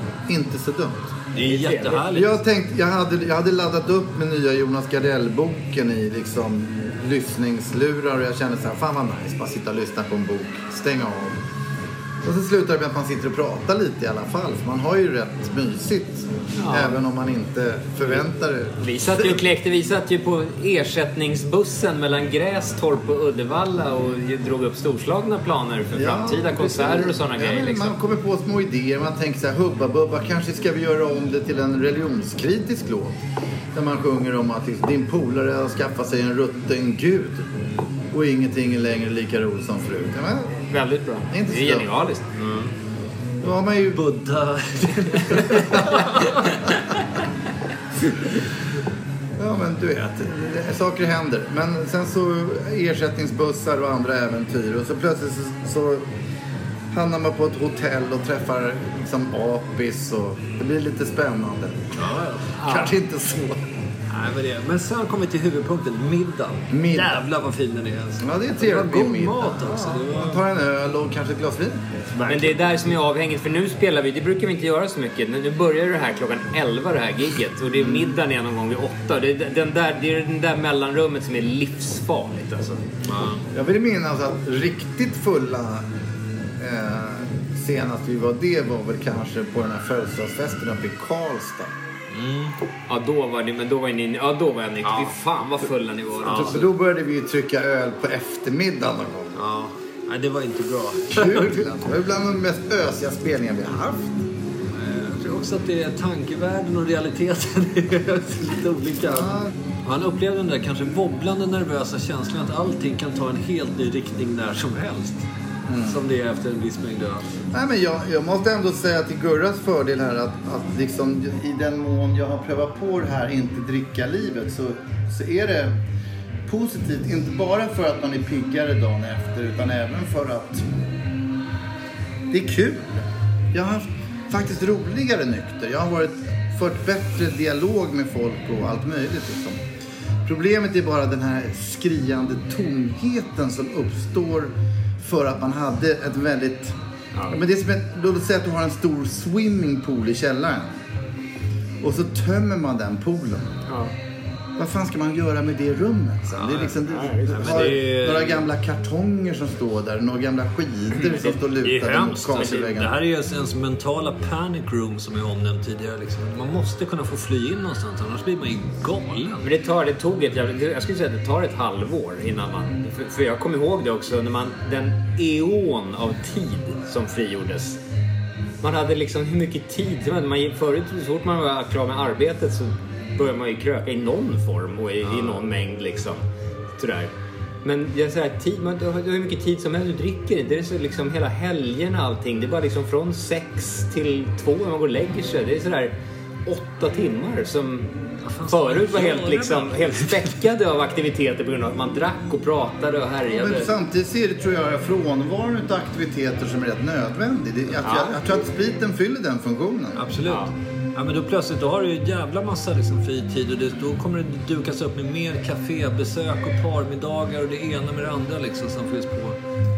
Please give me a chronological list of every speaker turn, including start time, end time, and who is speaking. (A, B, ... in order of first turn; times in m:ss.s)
0:00.3-0:01.1 A
0:01.4-0:02.4 B
0:01.5-0:02.0 C
0:02.1-0:11.4 A
0:12.2-0:19.4 A
0:16.6-0:17.0 C
0:18.8-0:28.0 C
0:25.9-0:33.2 A
0:33.7-0:37.5 A
0:38.1-0:40.6 A
0:40.7-0:42.3 C
0:41.3-0:41.9 A
0:42.4-0:42.7 B
0:43.4-0:44.0 A
0:43.9-0:46.5 B
0:45.4-0:46.1 A
0:49.4-0:56.0 A
0:56.9-1:01.9 A
1:02.0-1:02.8 B
1:02.6-1:02.9 C
1:02.6-1:03.7 A
1:04.1-1:10.4 B
1:06.7-1:07.2 A
1:08.2-1:11.8 A
1:12.2-1:12.9 B
1:12.2-1:22.8 C
1:17.7-1:18.2 A
1:23.1-1:23.4 B
1:23.5-1:25.9 A
1:26.6-1:31.7 A
1:32.1-1:32.5 B
1:32.9-1:36.7 C
1:34.8-1:35.2 B
1:36.2-1:36.6 B
1:36.3-1:39.4 A
1:39.4-1:41.8 B
1:41.1-1:44.2 A
1:44.7-1:55.2 B
1:49.1-1:49.5 A
1:55.7-1:56.0 A
1:55.8-1:57.3 B
1:57.5-2:05.8 A
2:06.5-2:10.6 A
2:12.3-2:12.9 A
2:13.5-2:19.6 A
2:20.3-2:26.8 A
2:27.3-2:30.8 A
2:31.8-2:33.5 A
2:33.7-2:33.9 C
2:34.6-2:43.0 A
2:36.3-2:38.5 B
2:36.8-2:37.8 C
2:41.0-2:41.4 C
2:41.6-2:49.5 B
2:42.3-2:42.7 C
2:49.4-2:57.8 C
2:58.6-3:06.2 C
3:05.0-3:05.5 B
3:06.8-3:07.1 C
3:07.6-3:16.0 C
3:16.5-3:17.9 C
3:18.2-3:20.3 B
3:18.5-3:23.7 C
3:23.3-3:30.0 A
3:27.8-3:28.2 C
3:30.0-3:39.4 B